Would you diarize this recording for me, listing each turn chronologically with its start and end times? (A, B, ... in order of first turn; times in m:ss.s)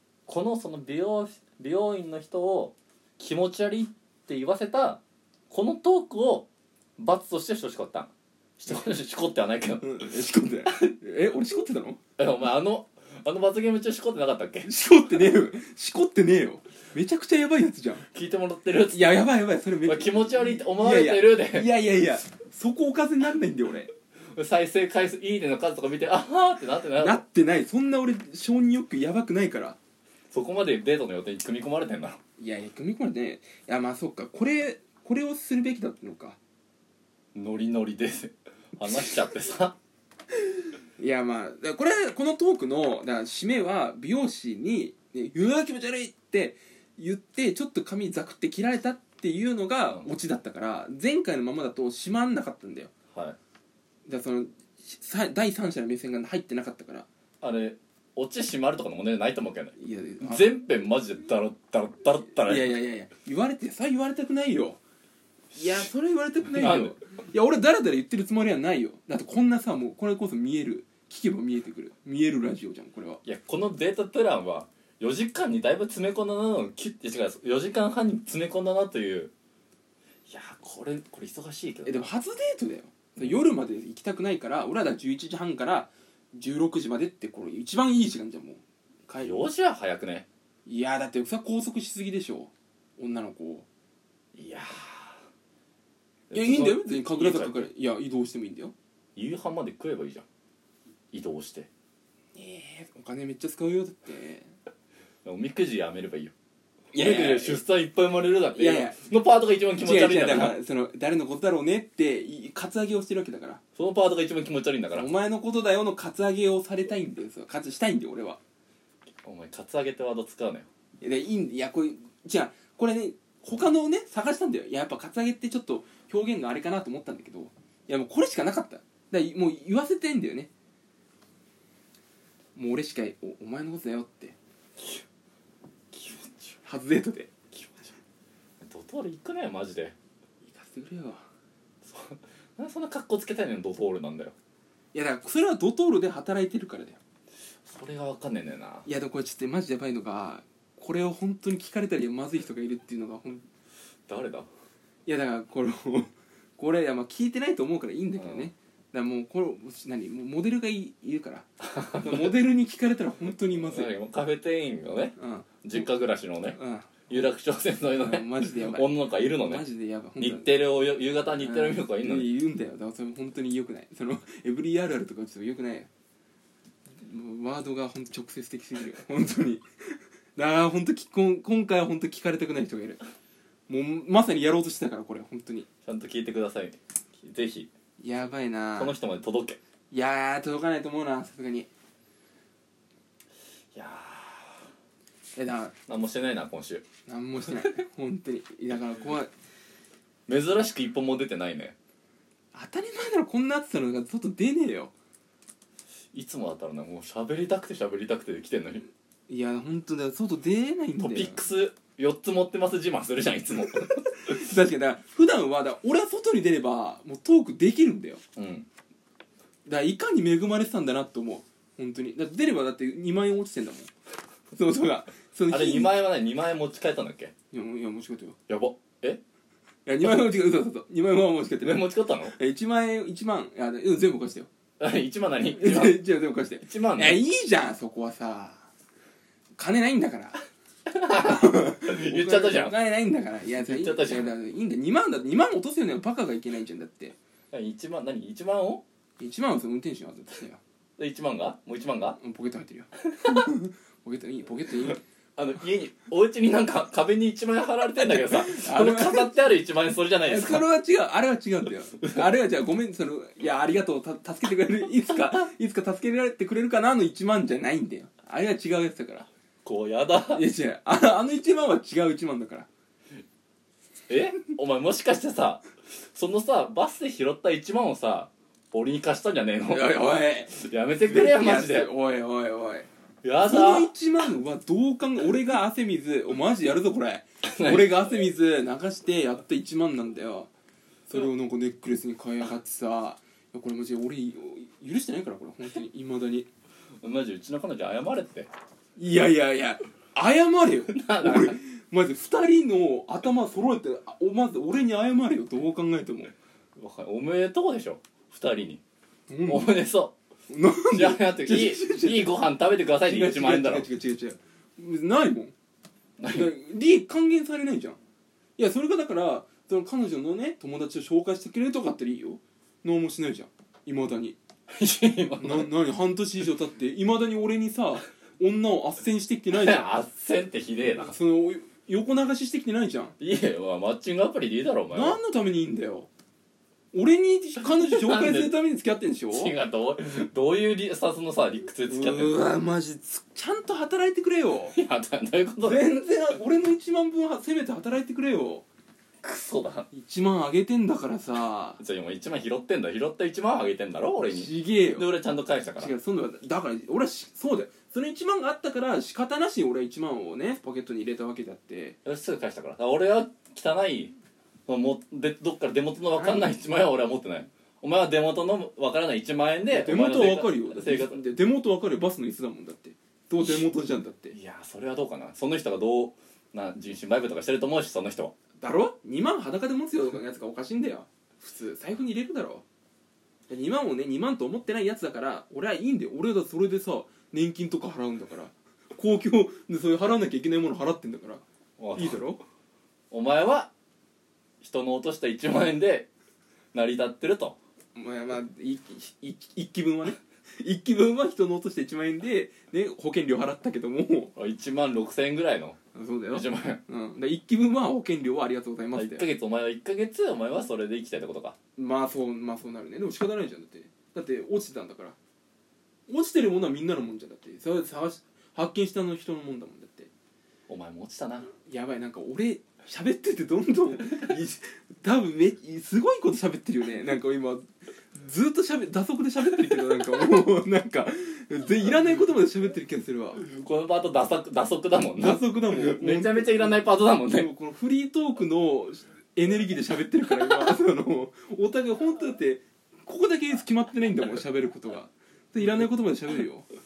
0:00.3-0:10.1 A
0:09.8-0:12.0 B
0:12.2-0:14.7 A
0:14.6-0:18.0 B
0:18.1-0:19.3 A
0:18.9-0:23.9 B
0:19.8-0:21.7 A
0:24.4-0:27.2 A
0:27.0-0:29.8 B
0:30.3-0:32.2 A
0:32.4-0:36.4 B
0:37.3-0:39.8 A
0:41.0-0:52.9 B
0:54.1-0:57.1 B
0:57.4-1:02.8 A
0:59.8-1:00.5 B
1:02.4-1:04.8 B
1:05.5-1:13.2 B
1:06.5-1:07.0 A
1:13.2-1:19.3 A
1:20.3-1:22.1 A
1:21.8-1:29.4 B
1:29.2-1:30.3 A
1:30.7-1:33.7 B
1:34.4-1:35.2 A
1:36.3-1:37.7 A
1:36.3-1:38.7 B
1:39.2-1:40.2 A
1:41.1-1:41.7 A
1:42.4-1:44.5 B
1:45.2-1:46.3 A
1:46.9-1:47.6 B
1:47.0-1:50.6 A
1:48.6-1:49.0 B
1:49.8-1:53.6 B
1:53.8-1:55.1 A
1:54.9-1:58.4 B
1:59.2-2:00.7 A
2:01.0-2:10.5 B
2:12.6-2:14.4 B
2:15.9-2:16.6 A
2:16.6-2:17.3 B
2:17.5-2:18.0 A
2:18.6-2:20.0 A
2:20.5-2:21.2 B
2:21.8-2:24.3 A
2:24.9-2:27.0 B
2:27.6-2:28.9 A
2:28.8-2:33.4 B
2:34.1-2:34.5 A
2:35.0-2:43.9 B
2:38.2-2:38.5 A
2:41.7-2:42.3 A
2:43.6-2:46.6 A
2:45.2-2:45.9 B
2:46.5-2:47.2 B
2:47.1-2:49.7 A
2:48.0-2:50.6 B
2:50.2-2:52.3 A
2:51.4-2:55.9 B
2:57.0-3:03.0 B
3:03.7-3:05.7 B
3:05.9-3:07.7 A
3:08.0-3:09.0 B
3:08.8-3:09.6 A
3:09.9-3:11.7 B
3:13.7-3:14.6 A
3:15.4-3:15.7 B
3:15.9-3:16.8 A
3:17.1-3:19.3 B
3:20.3-3:21.8 A
3:22.5-3:24.9 B
3:26.1-3:28.9 A
3:29.3-3:31.4 B
3:31.0-3:34.1 A
3:34.2-3:38.2 B
3:38.4-3:38.7 A
3:39.7-3:43.9 B
3:44.5-3:46.0 B
3:45.5-3:47.3 A
3:47.5-3:48.4 B
3:48.5-3:49.2 A
3:49.9-3:54.5 B
3:51.6-3:52.4 A
3:54.8-3:56.0 A
3:55.5-3:58.7 B
3:56.6-3:57.2 A
3:59.6-4:00.4 B
4:00.9-4:02.8 A
4:01.1-4:07.2 B
4:03.6-4:04.4 A
4:07.5-4:08.8 A
4:09.2-4:10.6 B
4:11.0-4:12.2 A
4:12.2-4:15.0 B
4:15.4-4:20.7 A
4:18.1-4:19.4 B
4:20.3-4:29.3 B
4:29.6-4:30.4 A
4:30.3-4:32.7 B
4:34.1-4:41.9 A
4:39.7-4:42.9 B
4:43.2-4:43.9 A
4:43.4-4:50.5 B
4:47.4-4:48.1 A
4:51.1-4:56.5 B
4:57.0-4:58.5 A
4:59.0-5:06.3 B
5:00.9-5:01.6 A
5:06.8-5:08.8 A
5:09.3-5:09.8 B
5:09.4-5:10.1 A
5:10.5-5:12.4 B
5:10.9-5:13.9 A
5:13.1-5:15.5 B
5:16.2-5:16.5 A
5:16.3-5:18.0 B
5:18.6-5:24.4 B
5:24.7-5:25.7 A
5:25.4-5:29.9 B
5:29.5-5:31.2 A
5:31.0-5:33.2 B
5:33.2-5:35.2 A
5:34.9-5:36.1 B
5:36.9-5:39.5 B
5:37.7-5:38.6 A
5:39.3-5:42.4 A
5:41.9-5:44.8 B
5:44.7-5:45.8 A
5:45.6-5:48.7 B
5:49.2-5:49.9 A
5:49.9-5:51.8 B
5:51.8-5:56.0 A
5:54.2-5:55.1 B
5:55.8-6:02.0 B
6:02.0-6:04.1 A
6:04.7-6:11.2 A
6:06.1-6:06.5 B
6:09.7-6:14.4 B
6:13.4-6:13.7 A
6:14.3-6:18.3 A
6:18.6-6:22.6 B
6:23.5-6:31.4 B
6:31.8-6:32.2 A
6:32.0-6:32.4 B
6:33.1-6:33.7 A
6:34.6-6:36.1 A
6:36.7-6:37.6 A
6:38.0-6:44.3 B
6:44.4-6:45.8 A
6:45.9-6:49.3 B
6:46.3-6:46.8 A
6:48.9-6:51.6 A
6:51.8-6:55.2 B
6:56.1-7:00.1 B
7:00.7-7:01.5 A
7:01.6-7:13.4 B
7:13.4-7:17.5 A
7:15.2-7:26.7 B